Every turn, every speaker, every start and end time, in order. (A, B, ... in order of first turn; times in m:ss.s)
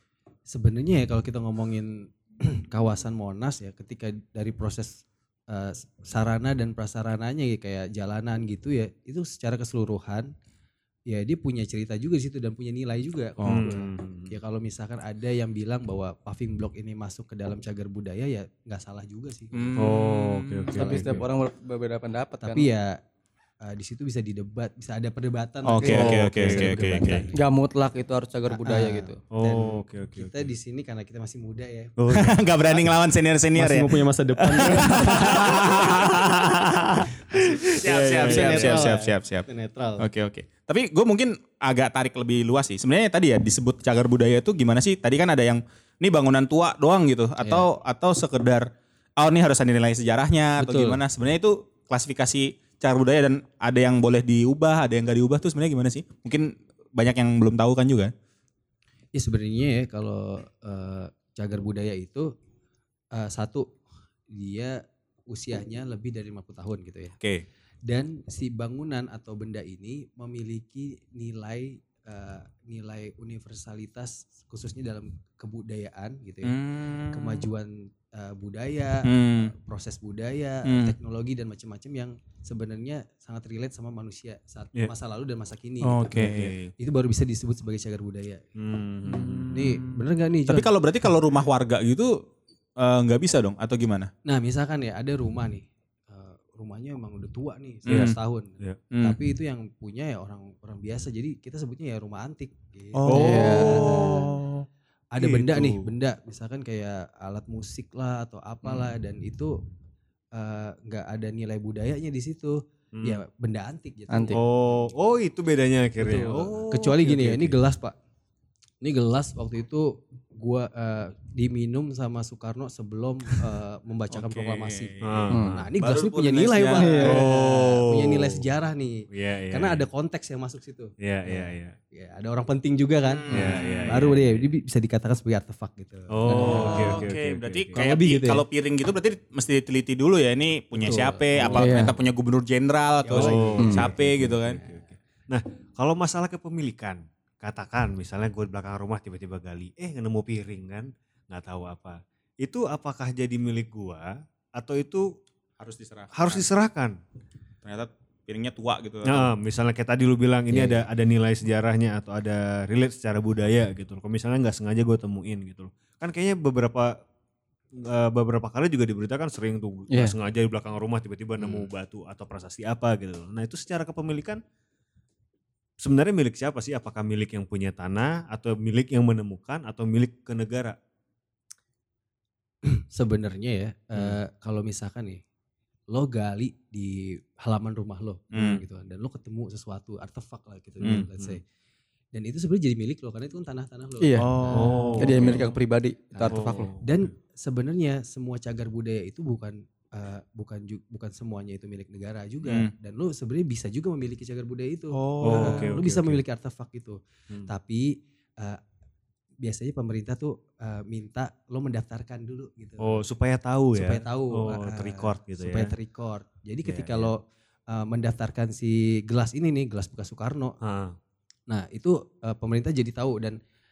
0:00.5-0:10.3 A
0:11.1-0:19.8 A
0:13.4-0:14.3 B
0:19.5-0:21.0 C
0:19.8-0:21.2 B
0:20.7-0:22.7 D
0:22.4-0:23.0 A
0:23.6-0:27.4 A
0:25.6-0:27.2 C
0:25.8-0:27.2 B
0:27.3-0:29.1 D
0:28.5-0:31.9 A
0:29.3-0:30.3 B
0:32.0-0:32.8 B
0:32.1-0:37.1 C
0:33.5-0:35.9 A
0:35.4-0:36.2 B
0:37.7-0:39.5 C
0:37.7-0:38.9 B
0:38.1-0:40.0 A
0:40.0-0:58.1 C
0:50.6-0:51.0 A
0:59.1-1:02.3 A
1:03.1-1:03.7 A
1:04.3-1:04.8 A
1:05.3-1:07.2 A
1:07.8-1:16.6 A
1:16.4-1:17.4 C
1:17.1-1:26.2 A
1:19.0-1:19.5 C
1:20.6-1:20.9 C
1:25.8-1:26.6 C
1:26.1-1:26.7 B
1:26.8-1:28.4 A
1:28.6-1:29.6 B
1:29.1-1:32.1 C
1:29.5-1:30.7 A
1:32.8-1:34.1 C
1:34.2-1:44.3 A
1:37.9-1:38.2 C
1:37.9-1:38.8 B
1:38.9-1:39.2 C
1:43.0-1:44.6 C
1:43.1-1:44.2 B
1:43.1-1:44.0 D
1:45.1-1:49.5 A
1:45.2-1:45.9 B
1:50.3-1:54.5 A
1:54.1-1:54.4 D
1:54.3-1:57.6 B
1:56.0-1:56.5 D
1:56.7-1:57.9 A
1:58.8-2:13.3 A
2:04.1-2:07.3 C
2:05.0-2:05.7 B
2:05.3-2:05.6 D
2:06.8-2:07.2 D
2:07.0-2:08.4 B
2:09.1-2:09.9 B
2:11.0-2:11.8 B
2:13.0-2:14.1 C
2:13.3-2:14.4 B
2:13.9-2:17.0 A
2:16.1-2:17.8 B
2:16.3-2:16.9 D
2:16.4-2:24.6 C
2:17.7-2:18.4 A
2:20.8-2:21.8 A
2:21.5-2:21.9 D
2:23.0-2:23.8 A
2:23.1-2:35.1 B
2:23.6-2:23.9 D
2:24.4-2:24.9 A
2:35.6-2:36.5 C
2:36.1-2:37.0 B
2:37.6-2:39.3 C
2:39.1-2:46.9 B
2:40.5-2:40.8 D
2:47.8-2:54.4 B
2:55.8-3:00.8 B
3:02.6-3:05.2 A
3:05.9-3:11.4 A
3:08.3-3:08.6 C
3:10.8-3:11.4 B
3:12.1-3:15.5 A
3:14.0-3:14.4 D
3:14.2-3:15.3 C
3:14.5-3:15.5 B
3:15.0-3:16.7 D
3:16.1-3:28.6 A
3:16.3-3:17.1 B
3:22.4-3:22.7 C
3:25.0-3:25.7 C
3:25.2-3:26.2 B
3:29.4-3:33.0 A
3:32.8-3:35.7 B
3:33.7-3:37.2 A
3:36.6-3:37.1 B
3:37.7-3:40.6 A
3:40.6-3:41.0 B
3:41.5-3:43.4 A